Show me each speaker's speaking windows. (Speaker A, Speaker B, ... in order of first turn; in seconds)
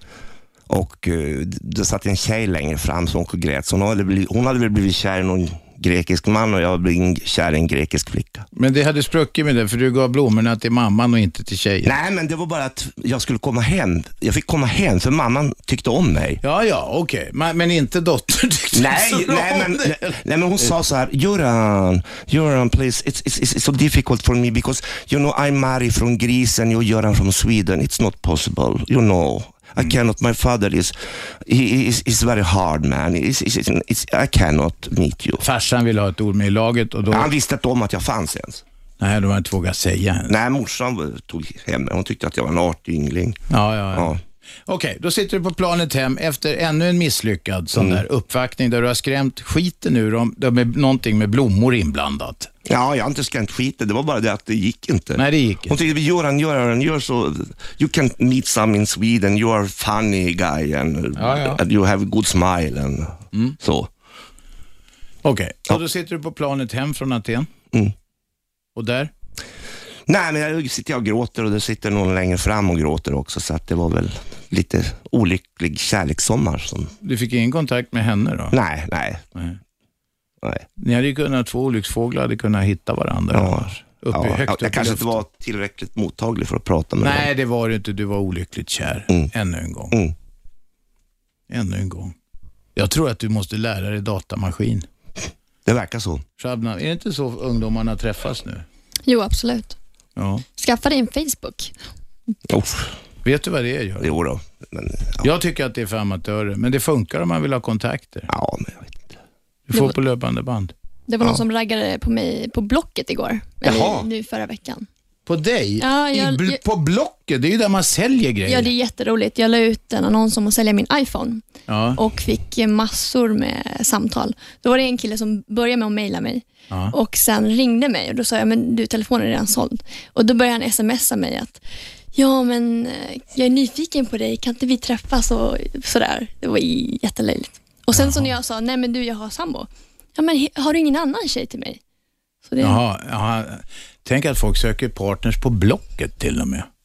Speaker A: 0.7-8.5, 11.8-16.4, 18.7-35.4, 37.1-38.6, 40.3-43.4, 43.9-44.2, 47.8-48.0, 52.6-63.9, 70.1-76.9, 78.5-79.2, 83.3-87.3, 95.7-96.2, 102.5-103.0, 104.0-105.3, 108.3-109.2, 113.7-114.1
Speaker B: 8.6-11.9, 16.4-20.7, 35.4-37.3, 39.0-40.4, 43.5-52.5, 55.2-55.8, 61.2-61.6, 65.2-67.5, 68.8-69.1, 77.0-78.6, 80.8-85.2, 87.0-90.0, 91.5-92.2, 92.8-94.9, 96.4-98.7, 100.2-100.4, 103.2-104.1, 105.2-108.3, 109.7-110.7, 115.3-118.7, 121.7-122.0, 126.7-127.0, 137.9-138.3, 142.6-146.7
Speaker C: 99.1-99.8, 100.6-101.8, 111.1-114.9, 115.8-116.6, 118.5-131.6, 132.1-141.8, 142.4-142.8